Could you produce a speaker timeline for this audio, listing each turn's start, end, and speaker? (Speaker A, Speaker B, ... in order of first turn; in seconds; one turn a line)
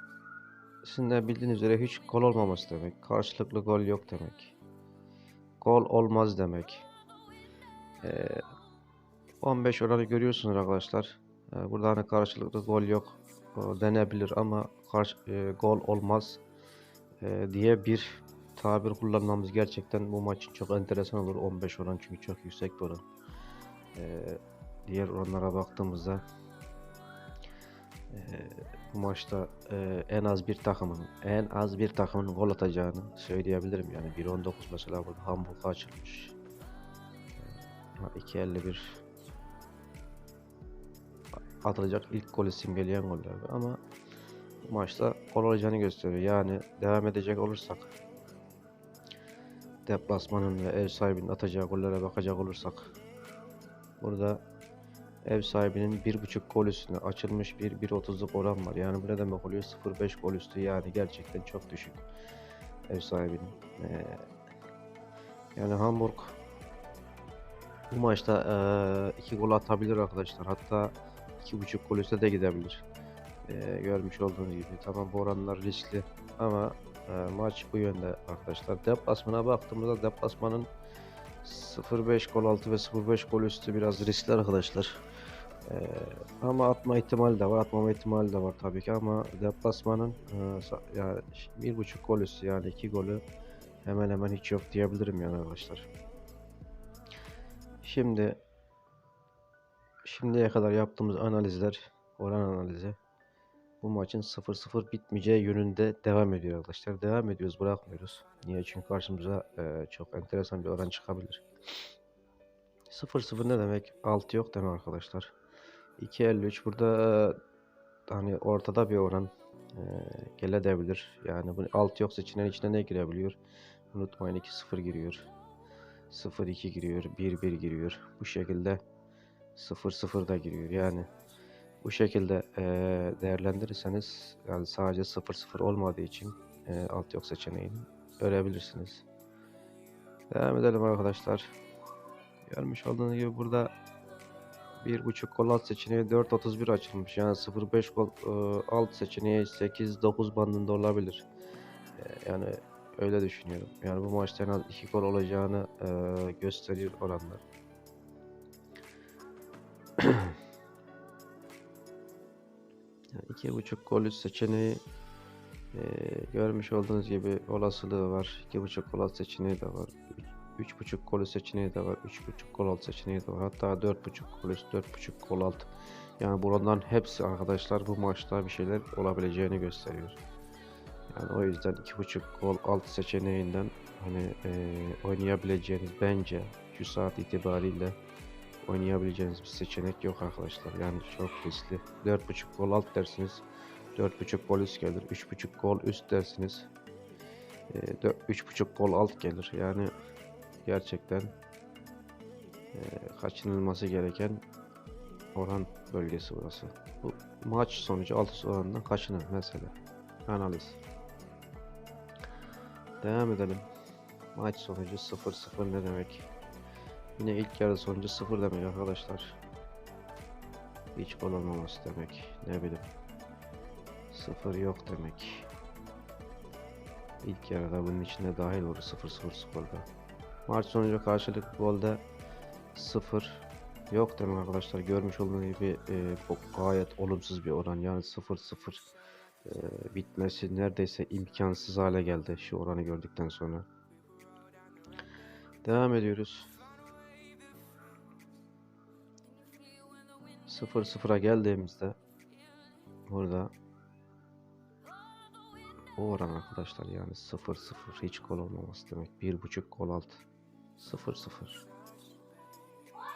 Speaker A: 0.8-4.5
Speaker A: 5.6-6.9
Speaker A: 8.0-8.4
Speaker A: 9.4-16.4
Speaker A: 17.2-23.0
Speaker A: 23.9-26.2
Speaker A: 28.1-36.4
Speaker A: 37.4-39.0
Speaker A: 41.6-43.8
Speaker A: 44.6-47.9
Speaker A: 49.9-52.9
Speaker A: 54.0-54.4
Speaker A: 55.3-62.0
Speaker A: 62.9-64.3
Speaker A: 65.6-66.4
Speaker A: 67.9-72.8
Speaker A: 73.5-80.7
Speaker A: 81.4-85.0
Speaker A: 85.7-93.2
Speaker A: 93.8-95.9
Speaker A: 97.8-98.4
Speaker A: 100.0-103.0
Speaker A: 103.8-111.4
Speaker A: 112.9-115.3
Speaker A: 116.0-117.4
Speaker A: 118.1-123.4
Speaker A: 123.9-125.3
Speaker A: 126.1-128.8
Speaker A: 129.6-131.1
Speaker A: 131.8-139.0
Speaker A: 140.3-141.6
Speaker A: 142.5-143.7
Speaker A: 144.8-151.2
Speaker A: 152.0-157.4
Speaker A: 160.0-160.3
Speaker A: 163.2-164.8
Speaker A: 165.7-180.2
Speaker A: 181.1-188.0
Speaker A: 188.7-193.4
Speaker A: 194.0-196.7
Speaker A: 197.7-199.9
Speaker A: 200.7-201.3
Speaker A: 202.7-204.4
Speaker A: 205.4-209.8
Speaker A: 210.3-210.8
Speaker A: 213.0-213.7
Speaker A: 214.3-216.3
Speaker A: 217.2-219.4
Speaker A: 220.9-222.9
Speaker A: 224.1-225.5
Speaker A: 227.2-229.9
Speaker A: 230.5-232.0
Speaker A: 232.7-238.8
Speaker A: 239.4-243.7
Speaker A: 245.6-246.5
Speaker A: 250.5-252.0
Speaker A: 253.1-253.5
Speaker A: 256.0-260.2
Speaker A: 260.8-261.6